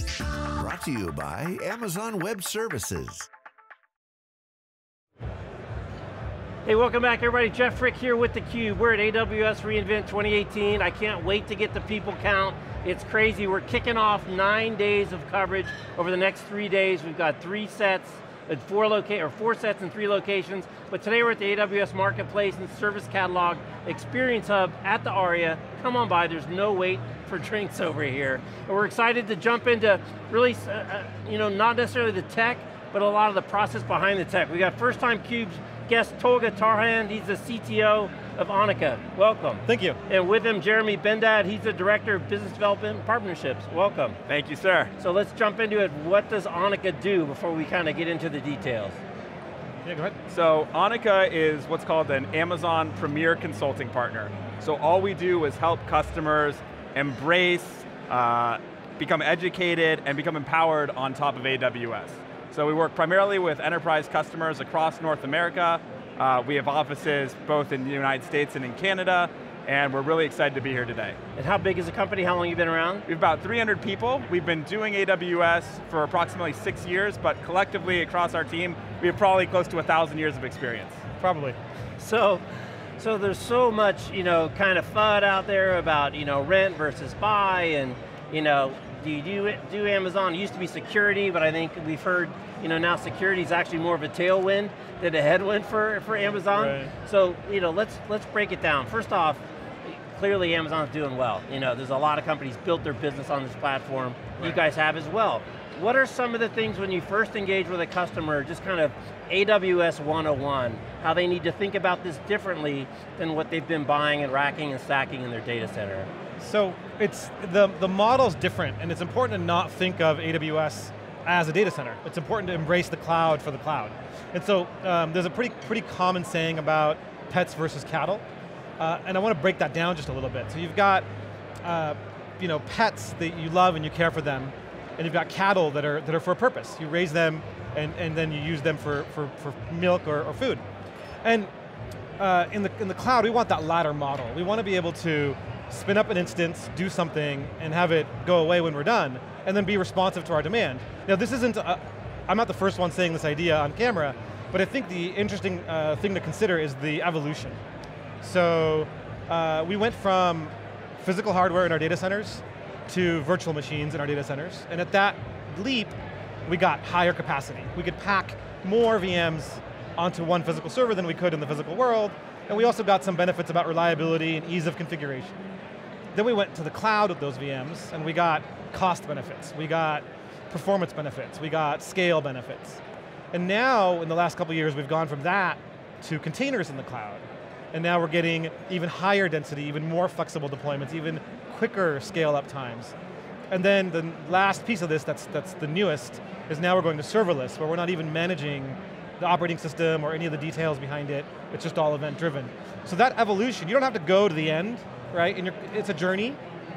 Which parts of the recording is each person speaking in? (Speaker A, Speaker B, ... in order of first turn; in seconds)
Speaker A: 0.5-3.3
Speaker B: 6.6-44.2, 45.0-49.0, 71.3-73.0, 82.0-82.4, 83.0-116.1
Speaker C: 39.6-40.0, 49.8-50.1, 81.2-81.6, 96.5-96.9, 116.4-128.2, 128.8-131.1, 131.6-140.6, 141.2-141.5, 142.2-157.6, 158.2-165.9, 166.5-175.3, 176.1-182.8, 183.3-192.9, 193.5-206.4
Speaker D: 44.3-44.9, 50.3-71.2, 73.1-81.0